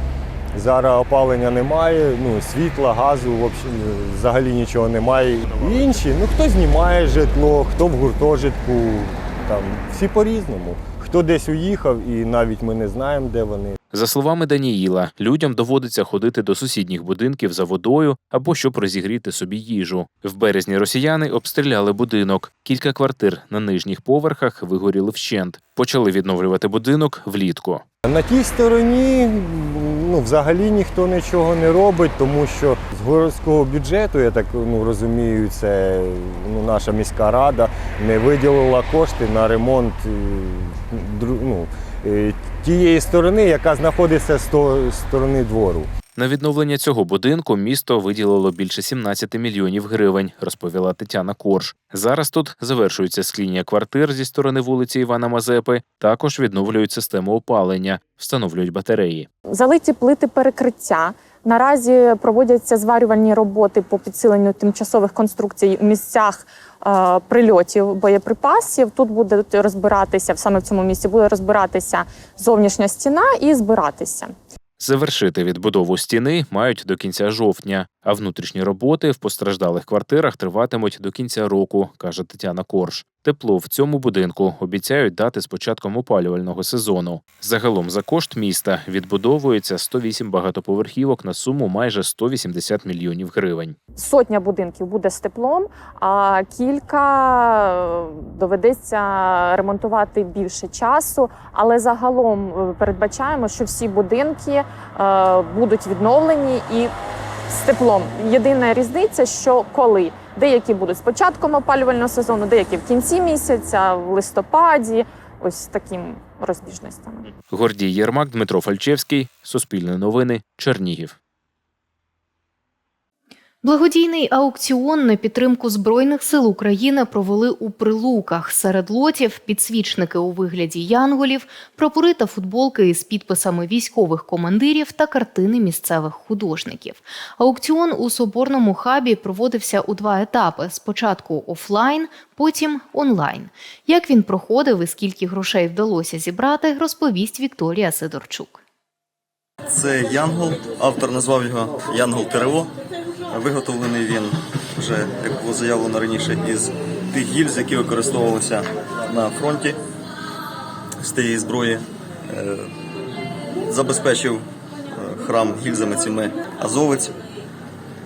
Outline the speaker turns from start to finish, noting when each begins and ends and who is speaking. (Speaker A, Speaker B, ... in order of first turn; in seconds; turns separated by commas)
Speaker A: 0.6-13.8, Speaker B: 13.9-27.8, Speaker A: 28.0-45.9, Speaker B: 46.1-59.3, Speaker C: 59.5-74.3, Speaker B: 74.8-93.8, Speaker C: 94.0-106.9, Speaker C: 107.5-117.2, Speaker B: 117.5-121.1, Speaker D: 123.6-148.6, Speaker E: 149.7-152.7, Speaker E: 153.3-159.8, Speaker E: 161.0-162.7, Speaker E: 163.7-167.1